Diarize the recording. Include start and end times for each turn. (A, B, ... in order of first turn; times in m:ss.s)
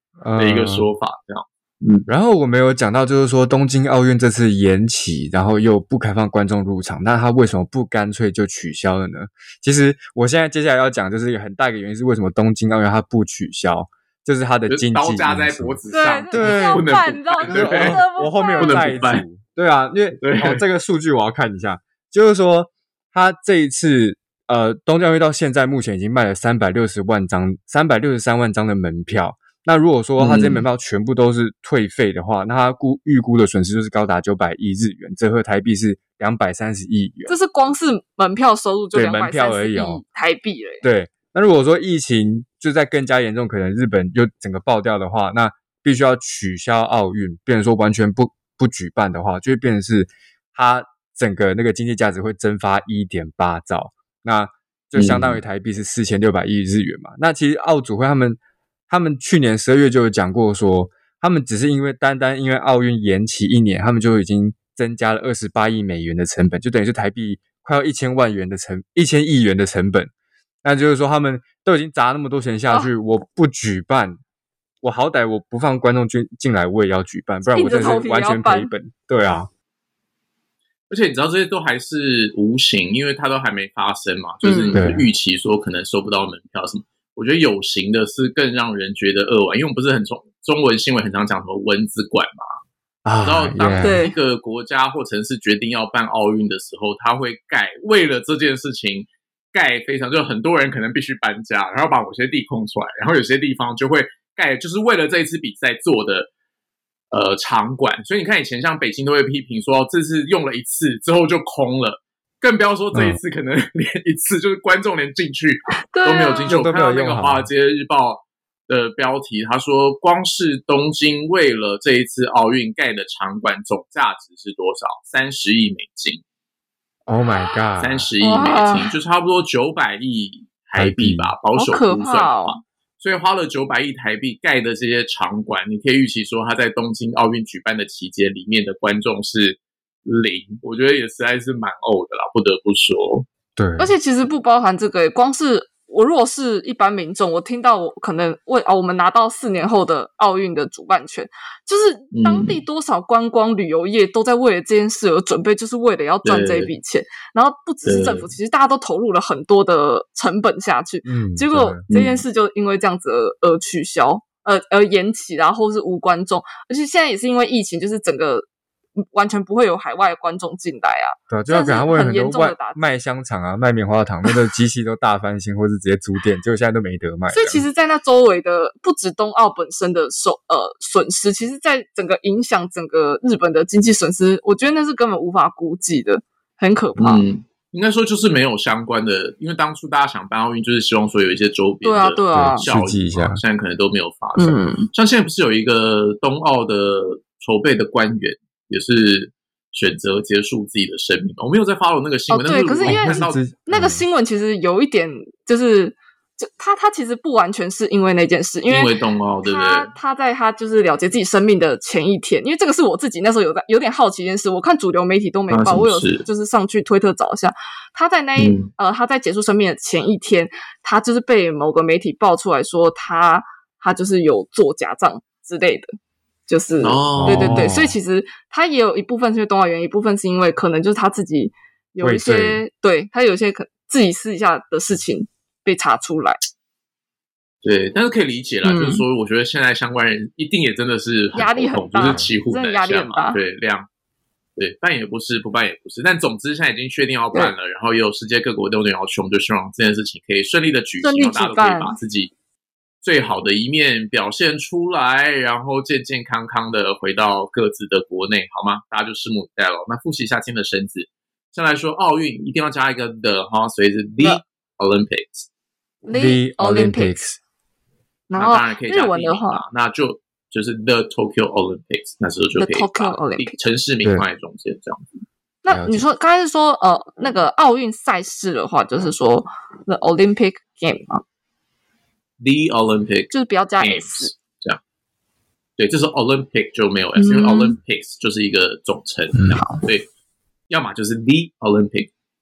0:00.2-0:00.9 A
0:00.4-0:02.1 B
0:02.1-0:15.8 A
0:14.7-0:18.0 B
0:15.9-0:19.1 C
0:16.3-0:16.9 A
0:17.4-0:37.3 A
0:18.6-0:19.2 B
0:20.2-0:20.6 B
0:30.2-0:30.6 B
0:37.3-0:40.8 C
0:38.9-0:40.0 A
0:40.8-1:10.1 A
0:55.0-0:55.4 B
1:10.6-1:14.2 A
1:14.8-1:19.5 A
1:17.5-1:18.7 C
1:20.9-1:32.5 B
1:24.4-1:24.8 C
1:24.7-1:25.0 A
1:33.0-1:34.0 A
1:33.2-1:46.3 B
1:33.8-1:34.1 C
1:47.1-2:06.2 B
1:52.9-1:53.2 A
1:55.9-1:56.5 C
1:56.5-1:57.5 A
2:07.1-2:08.1 A
2:07.8-2:23.2 B
2:08.2-2:08.9 C
2:10.8-2:11.3 A
2:11.6-2:12.6 C
2:23.6-2:23.9 A
2:23.8-2:48.4 C
2:32.1-2:32.6 B
2:36.2-2:36.7 B
2:37.8-2:38.3 B
2:41.0-2:41.8 A
2:41.9-2:42.2 B
2:49.0-2:52.8 C
2:51.3-2:57.6 A
2:57.3-3:07.2 C
3:07.0-3:23.4 B
3:11.8-3:12.6 C
3:12.3-3:13.4 A
3:14.4-3:14.9 C
3:22.3-3:28.9 C
3:22.8-3:24.0 A
3:28.7-3:29.9 B
3:29.4-3:45.9 C
3:35.5-3:36.3 B
3:38.4-3:38.7 B
3:46.5-3:56.4 C
3:46.8-3:47.7 B
3:47.2-3:48.0 A
3:52.0-3:52.6 A
3:57.6-4:03.9 B
3:58.6-3:59.0 C
4:01.3-4:03.4 C
4:02.0-4:02.3 A
4:04.6-4:12.3 B
4:11.0-4:12.0 C
4:13.0-4:25.5 B
4:26.0-4:27.2 C
4:26.1-4:27.4 A
4:28.3-4:29.6 C
4:28.3-4:35.2 B
4:32.6-4:33.6 C
4:35.6-4:41.2 C
4:35.7-4:36.0 A
4:42.4-4:44.8 B
4:43.3-4:44.3 C
4:45.8-4:50.1 B
4:47.2-4:47.8 C
4:49.4-4:49.6 A
4:50.7-4:52.1 B